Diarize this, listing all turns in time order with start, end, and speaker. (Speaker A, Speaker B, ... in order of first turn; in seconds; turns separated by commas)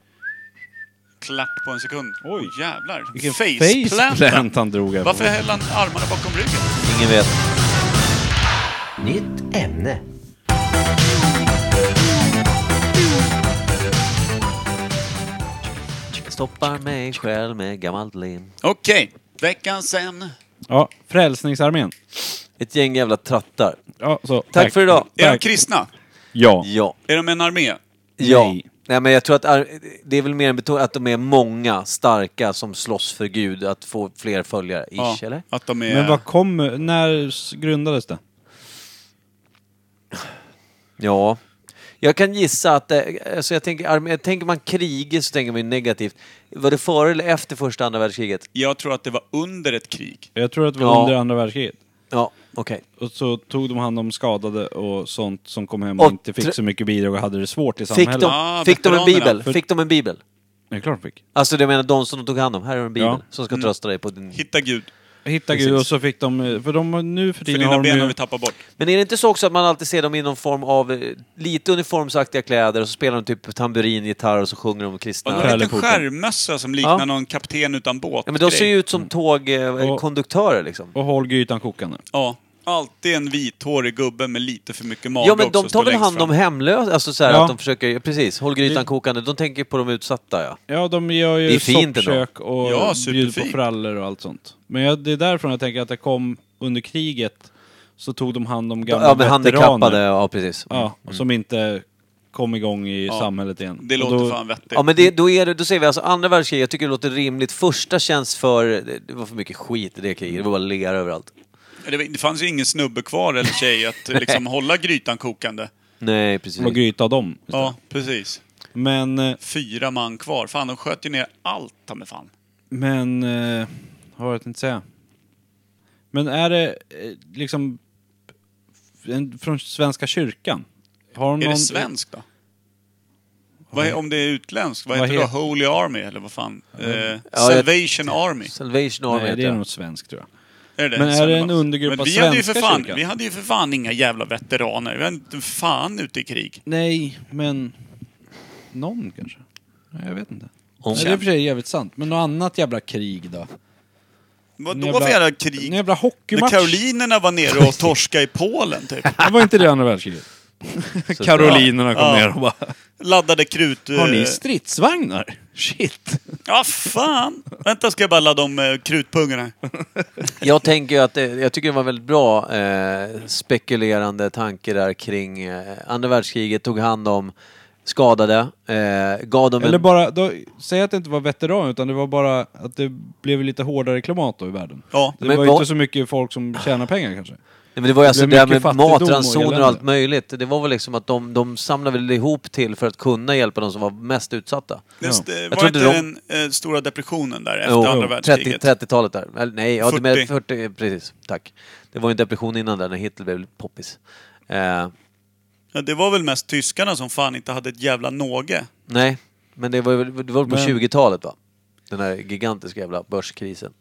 Speaker A: 1.2-4.5, Speaker B: 2.2-2.5, Speaker B: 3.1-5.3, Speaker A: 5.0-6.7, Speaker C: 6.8-7.4, Speaker C: 9.0-10.0, Speaker C: 16.3-18.5, Speaker A: 18.6-20.3, Speaker B: 20.7-21.9, Speaker C: 22.6-23.8, Speaker B: 24.0-25.4, Speaker C: 24.5-25.1, Speaker A: 25.2-25.9, Speaker B: 26.3-26.7, Speaker C: 26.6-27.0, Speaker A: 27.1-27.8, Speaker C: 28.2-35.4, Speaker B: 28.2-28.7, Speaker A: 35.0-36.2, Speaker B: 35.9-38.2, Speaker C: 41.0-41.4, Speaker C: 42.0-48.5, Speaker A: 48.5-50.3, Speaker B: 50.4-51.8, Speaker C: 50.8-51.1, Speaker C: 52.1-52.8, Speaker B: 53.0-58.3, Speaker C: 56.0-56.6, Speaker C: 57.9-60.2, Speaker A: 58.2-59.4, Speaker B: 60.7-61.2, Speaker C: 61.4-64.4, Speaker A: 64.3-64.9, Speaker B: 65.2-68.2, Speaker C: 65.5-65.9, Speaker A: 67.5-68.6, Speaker C: 68.8-75.7, Speaker A: 75.2-78.7, Speaker B: 75.4-76.0, Speaker C: 78.3-81.0, Speaker B: 81.0-82.0, Speaker A: 82.1-86.3, Speaker C: 85.2-90.6, Speaker B: 87.3-87.6, Speaker B: 90.7-100.0, Speaker C: 91.5-92.2, Speaker A: 92.6-93.6, Speaker C: 98.9-101.2, Speaker B: 100.7-104.4, Speaker A: 103.1-104.9, Speaker C: 104.7-111.3, Speaker A: 111.8-115.7, Speaker C: 116.0-116.8, Speaker B: 116.6-117.8, Speaker A: 117.5-118.4, Speaker B: 118.8-119.4, Speaker A: 119.4-122.3, Speaker B: 122.7-124.8, Speaker B: 126.1-127.8, Speaker B: 129.0-131.9, Speaker A: 131.4-132.2, Speaker B: 133.7-134.0, Speaker A: 133.7-138.5, Speaker B: 134.9-135.3, Speaker B: 136.8-137.1, Speaker C: 137.3-137.7, Speaker C: 138.5-139.6, Speaker B: 139.1-140.3, Speaker A: 140.8-146.6, Speaker B: 141.0-143.0, Speaker B: 146.7-147.8, Speaker B: 148.7-153.5, Speaker C: 150.8-151.1, Speaker A: 150.9-151.2, Speaker A: 154.6-159.1, Speaker B: 154.7-156.8, Speaker B: 159.2-162.7, Speaker C: 161.2-161.7, Speaker A: 161.4-162.3, Speaker A: 163.0-164.4, Speaker B: 163.9-166.4, Speaker A: 166.4-169.6, Speaker C: 170.4-177.3, Speaker C: 177.8-179.8, Speaker B: 179.6-187.4, Speaker C: 185.2-185.7, Speaker C: 187.8-194.9, Speaker B: 188.0-189.8, Speaker A: 195.0-198.7, Speaker C: 195.5-196.1, Speaker C: 197.7-204.0, Speaker B: 197.9-198.1, Speaker A: 199.8-200.3, Speaker C: 204.5-204.9, Speaker A: 205.7-208.7, Speaker C: 208.9-211.3, Speaker B: 210.5-210.8, Speaker C: 211.9-213.7